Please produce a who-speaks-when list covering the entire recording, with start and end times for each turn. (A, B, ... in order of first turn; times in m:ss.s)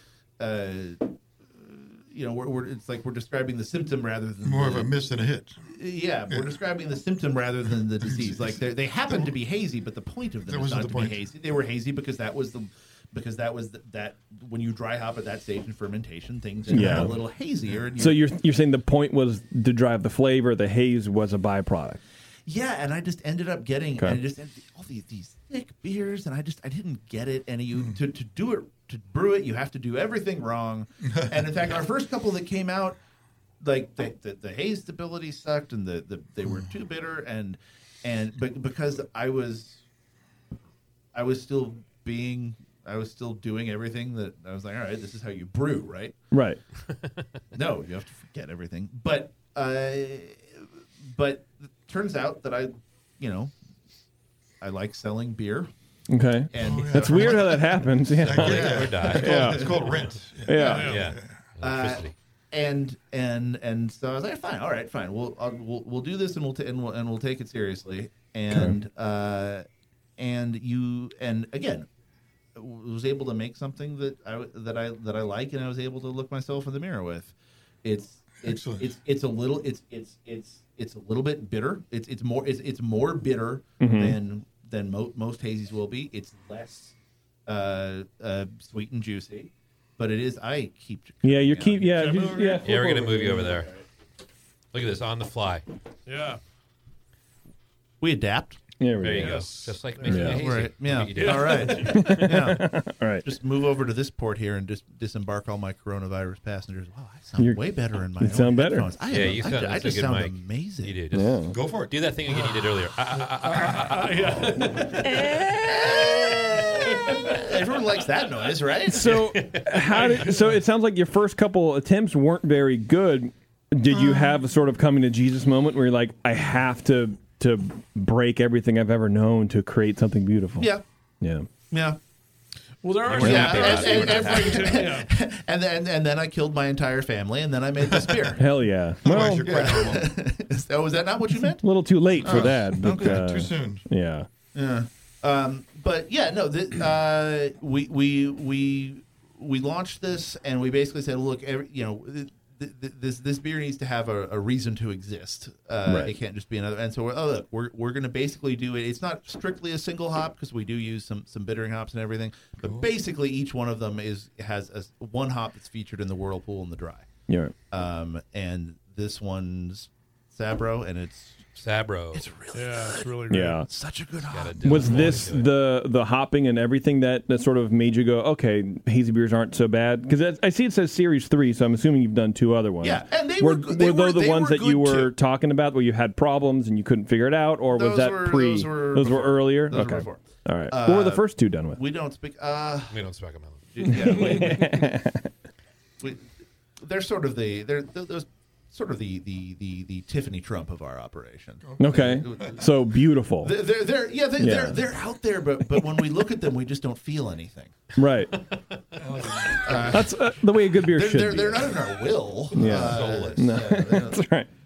0:00.4-0:04.9 A
0:04.4-0:05.6 B
0:05.7-0:18.2 A
0:06.3-0:06.5 B
0:08.0-0:09.3 B
0:10.4-0:11.3 B
0:16.7-0:17.2 C
0:16.7-0:17.2 B
0:18.0-0:22.0 C
0:22.5-0:33.0 A
0:31.0-0:31.5 B
0:33.6-0:39.8 A
0:41.1-0:46.2 A
0:46.3-0:46.6 C
0:47.5-0:53.5 A
0:54.6-0:55.7 A
0:56.1-0:59.8 C
0:56.5-0:57.7 A
0:56.6-1:01.4 B
0:58.3-1:00.1 D
0:58.4-0:59.8 A
1:00.5-1:01.0 C
1:00.5-1:01.1 E
1:00.7-1:02.1 D
1:01.6-1:09.6 A
1:08.5-1:08.8 C
1:10.2-1:11.9 A
1:12.6-1:27.0 A
1:18.4-1:18.9 B
1:23.8-1:24.2 C
1:27.5-1:32.0 A
1:31.2-1:33.6 C
1:31.9-1:32.7 E
1:32.6-1:33.7 D
1:34.7-1:35.6 D
1:36.0-1:36.4 E
1:38.0-1:38.6 A
1:38.8-1:39.4 C
1:39.0-1:42.2 D
1:39.2-1:40.5 E
1:40.0-1:40.4 C
1:40.3-1:51.0 A
1:41.0-1:42.3 E
1:41.7-1:43.3 C
1:47.4-1:47.6 C
1:48.2-1:48.9 C
1:49.1-1:55.2 D
1:51.1-1:51.6 C
1:51.5-1:52.0 B
1:52.3-1:52.6 E
1:53.1-1:55.5 E
1:55.5-1:59.2 A
1:56.6-1:57.2 E
1:58.9-2:11.5 C
1:59.0-2:00.0 D
1:59.9-2:00.5 E
2:03.9-2:04.4 B
2:10.6-2:10.8 A
2:11.7-2:12.0 A
2:12.8-2:15.1 E
2:13.0-2:14.9 D
2:13.2-2:18.4 A
2:17.9-2:18.3 B
2:18.4-2:19.8 C
2:19.0-2:20.1 B
2:19.3-2:21.7 A
2:21.6-2:24.3 C
2:22.2-2:23.2 A
2:22.2-2:23.8 B
2:24.5-2:47.1 A
2:35.9-2:36.1 C
2:42.6-2:42.9 B
2:47.3-2:47.5 C
2:47.7-2:51.5 A
2:51.6-2:52.3 D
2:52.1-2:55.2 A
2:52.5-2:53.6 E
2:53.3-2:53.7 C
2:54.3-2:55.5 D
2:54.6-3:11.8 C
3:02.8-3:05.1 A
3:07.7-3:13.0 A
3:12.9-3:13.9 D
3:13.7-3:14.9 A
3:13.8-3:15.3 C
3:16.0-3:22.8 A
3:21.6-3:22.6 B
3:21.8-3:23.6 C
3:23.4-3:27.8 A
3:24.4-3:24.8 C
3:28.0-3:28.3 C
3:29.0-3:29.8 B
3:29.6-3:34.3 A
3:29.9-3:31.7 C
3:32.5-3:34.5 C
3:32.6-3:33.5 D